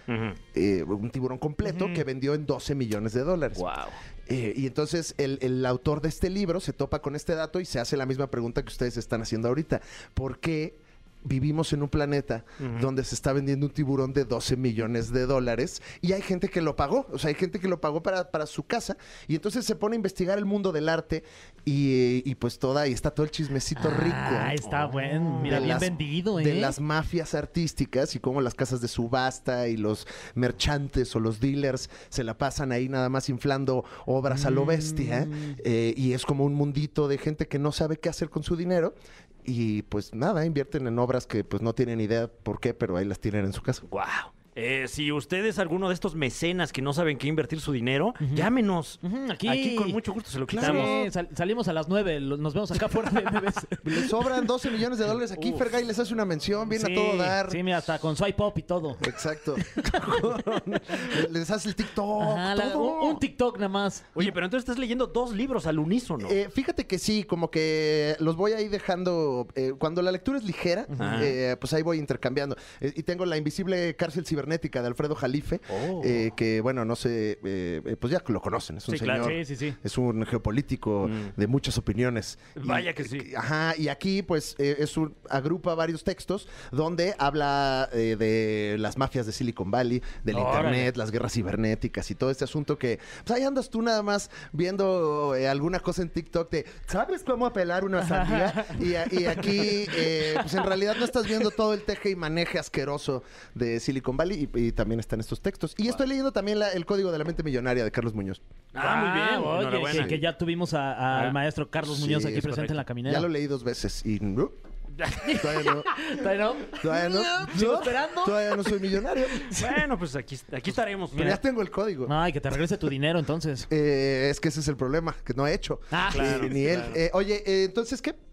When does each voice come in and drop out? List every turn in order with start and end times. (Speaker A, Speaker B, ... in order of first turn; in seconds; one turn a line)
Speaker A: 0.1-0.4
Speaker B: 0.5-3.7
Speaker C: 1.6-2.0
Speaker A: 3.6-4.0
Speaker B: 4.3-24.6
Speaker A: 12.6-12.9
Speaker C: 23.8-26.8
Speaker A: 24.6-25.8
Speaker B: 25.4-43.9
Speaker C: 34.3-35.6
Speaker A: 43.9-50.9
Speaker C: 48.2-48.5
Speaker C: 49.0-50.0
Speaker B: 50.5-51.1
Speaker C: 50.6-54.1
Speaker B: 53.8-57.6
Speaker A: 55.4-55.6
Speaker C: 56.8-59.1
Speaker B: 59.0-63.2
Speaker C: 62.2-64.2
Speaker A: 64.2-66.4
Speaker B: 66.2-108.4
Speaker C: 70.9-71.3
Speaker A: 71.0-71.3
Speaker A: 75.7-76.2
Speaker A: 78.9-79.4
Speaker C: 79.2-79.8
Speaker A: 81.0-81.3
Speaker A: 82.6-83.3
Speaker C: 90.3-90.9
Speaker C: 98.0-100.0
Speaker A: 108.7-110.2
Speaker C: 108.8-113.3
Speaker B: 109.9-110.2
Speaker B: 111.8-114.6
Speaker A: 112.4-112.8
Speaker A: 115.0-115.5
Speaker C: 115.3-118.8
Speaker B: 115.3-115.9
Speaker B: 116.6-119.7
Speaker A: 119.5-121.4
Speaker B: 121.1-122.1
Speaker C: 122.0-123.7
Speaker B: 123.7-128.2
Speaker C: 125.9-126.5
Speaker A: 126.1-127.0